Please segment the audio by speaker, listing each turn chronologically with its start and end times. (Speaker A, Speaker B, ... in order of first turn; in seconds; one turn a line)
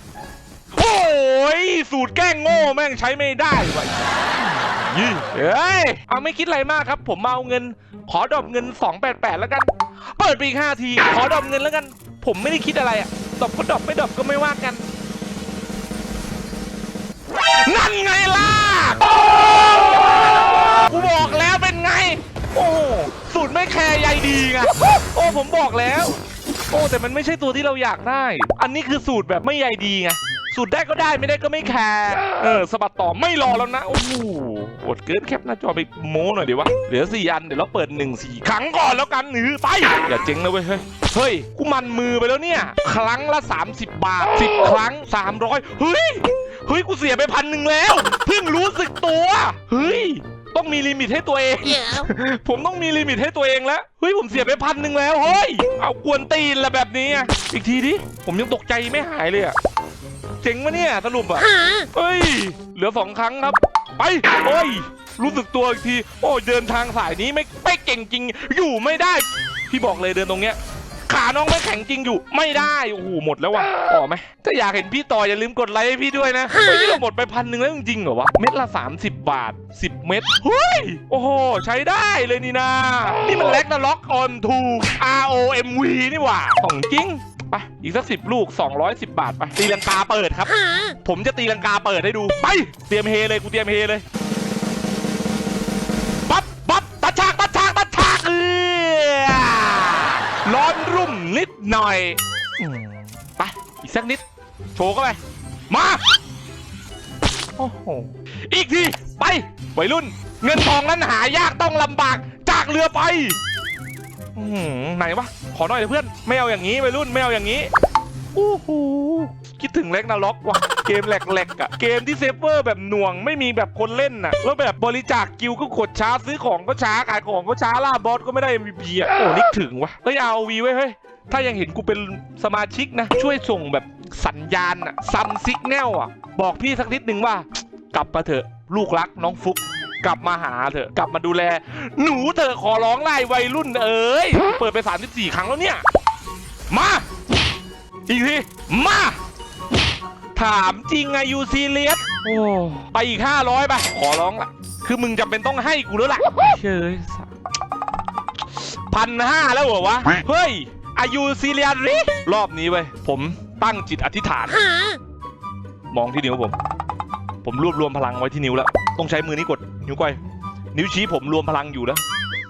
Speaker A: 0.7-14.8
Speaker A: 17.6-26.2
Speaker A: 26.7-59.5
Speaker A: 60.4-70.6
Speaker A: 71.1-94.0
Speaker A: 96.2-104.2
Speaker A: 104.8-105.2
Speaker A: 105.7-106.0
Speaker A: 107.6-113.4
Speaker A: 114.3-117.7
Speaker A: 118.3-145.8
Speaker A: 146.7-147.1
Speaker A: 148.1-149.2
Speaker A: 150.3-157.3
Speaker A: 158.6-164.7
Speaker A: 165.9-166.6
Speaker A: 167.4-170.2
Speaker A: 170.7-172.0